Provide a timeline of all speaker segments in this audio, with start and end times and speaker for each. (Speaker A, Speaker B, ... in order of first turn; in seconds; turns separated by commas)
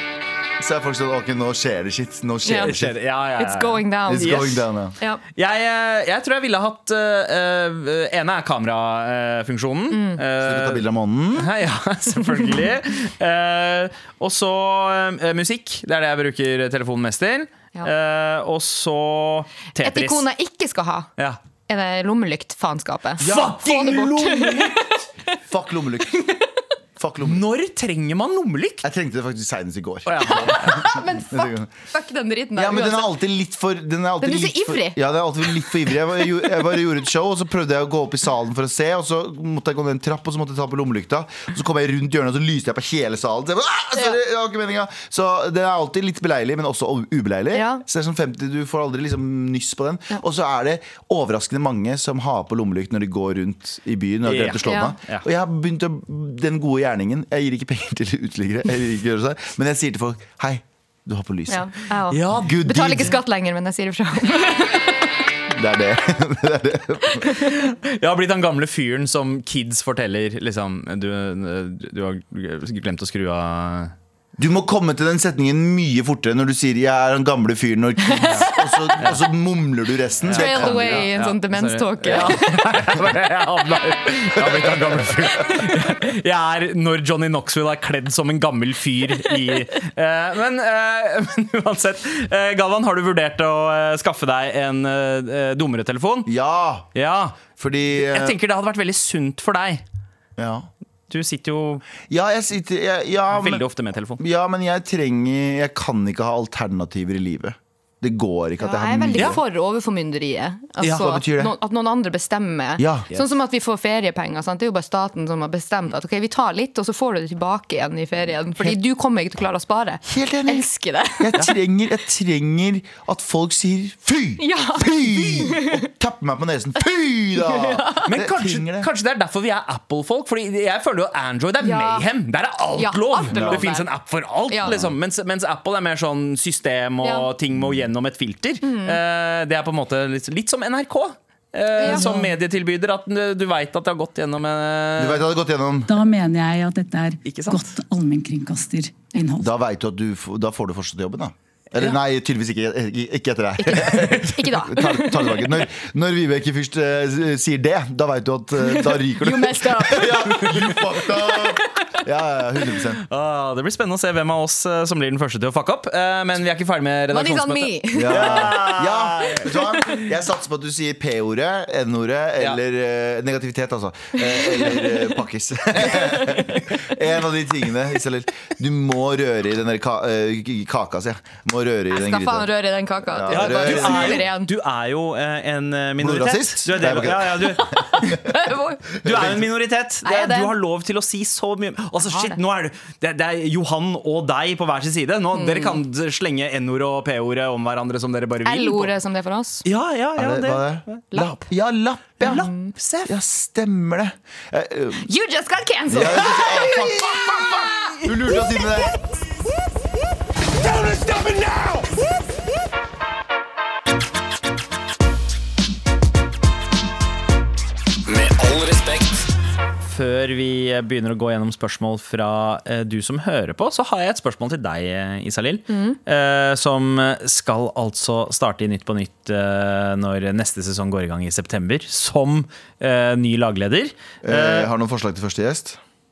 Speaker A: 0.6-3.0, Speaker B: 2.5-2.7, Speaker C: 2.6-4.6, Speaker B: 3.4-4.5, Speaker A: 4.1-5.0, Speaker C: 5.3-10.8, Speaker B: 9.9-10.2, Speaker A: 10.4-11.5, Speaker C: 11.4-20.2, Speaker B: 19.8-21.1, Speaker B: 21.7-24.9, Speaker A: 23.2-23.7, Speaker C: 23.2-24.9, Speaker A: 25.5-26.3, Speaker A: 27.0-27.4, Speaker C: 27.2-28.9, Speaker A: 28.8-31.7, Speaker C: 30.1-30.9, Speaker B: 30.2-33.1, Speaker A: 32.5-61.7, Speaker B: 34.2-35.9, Speaker B: 47.5-47.8, Speaker C: 54.3-55.2, Speaker B: 54.6-54.9, Speaker B: 61.5-65.1, Speaker C: 62.1-62.5, Speaker A: 62.2-63.2, Speaker A: 65.5-67.3, Speaker C: 67.5-73.9, Speaker A: 74.4-81.1, Speaker C: 78.2-78.5, Speaker C: 80.2-96.3, Speaker B: 80.3-82.6, Speaker A: 84.4-85.6, Speaker A: 96.3-96.9, Speaker C: 97.0-97.4, Speaker A: 97.6-98.4, Speaker C: 98.0-99.8, Speaker A: 100.4-100.7, Speaker C: 101.1-101.8, Speaker A: 102.1-103.6, Speaker C: 103.3-104.2, Speaker A: 104.2-109.4, Speaker B: 108.6-121.4, Speaker C: 110.8-111.1, Speaker A: 110.8-111.5, Speaker A: 112.8-113.1, Speaker A: 120.1-120.7, Speaker A: 121.2-128.9, Speaker B: 124.4-125.8, Speaker B: 127.4-128.1, Speaker C: 128.1-145.2, Speaker B: 131.6-132.1, Speaker B: 132.8-133.9, Speaker A: 133.3-133.7, Speaker A: 134.7-134.9, Speaker B: 137.0-137.3, Speaker B: 138.6-139.0, Speaker B: 141.8-142.1, Speaker A: 145.0-145.9, Speaker D: 145.9-149.5, Speaker C: 147.3-147.7, Speaker A: 149.4-163.0, Speaker B: 153.6-155.6, Speaker B: 158.6-160.8, Speaker B: 161.3-161.7, Speaker C: 163.1-169.8, Speaker B: 167.1-168.7, Speaker A: 167.9-182.5, Speaker B: 181.9-184.5, Speaker A: 183.1-184.3, Speaker C: 183.3-188.2, Speaker A: 186.0-188.3, Speaker B: 187.6-188.8, Speaker C: 189.0-198.9, Speaker A: 189.0-189.5, Speaker B: 190.1-190.5, Speaker B: 192.1-192.4, Speaker B: 195.3-195.8, Speaker B: 198.4-199.7, Speaker C: 199.7-201.0, Speaker A: 200.2-202.5, Speaker C: 202.2-203.2, Speaker B: 202.2-202.7, Speaker A: 203.1-205.1, Speaker B: 205.0-206.9, Speaker A: 205.9-208.9, Speaker C: 206.5-208.0, Speaker C: 210.8-211.8, Speaker C: 218.4-218.8, Speaker C: 219.8-234.7, Speaker B: 225.7-226.0, Speaker A: 234.2-235.8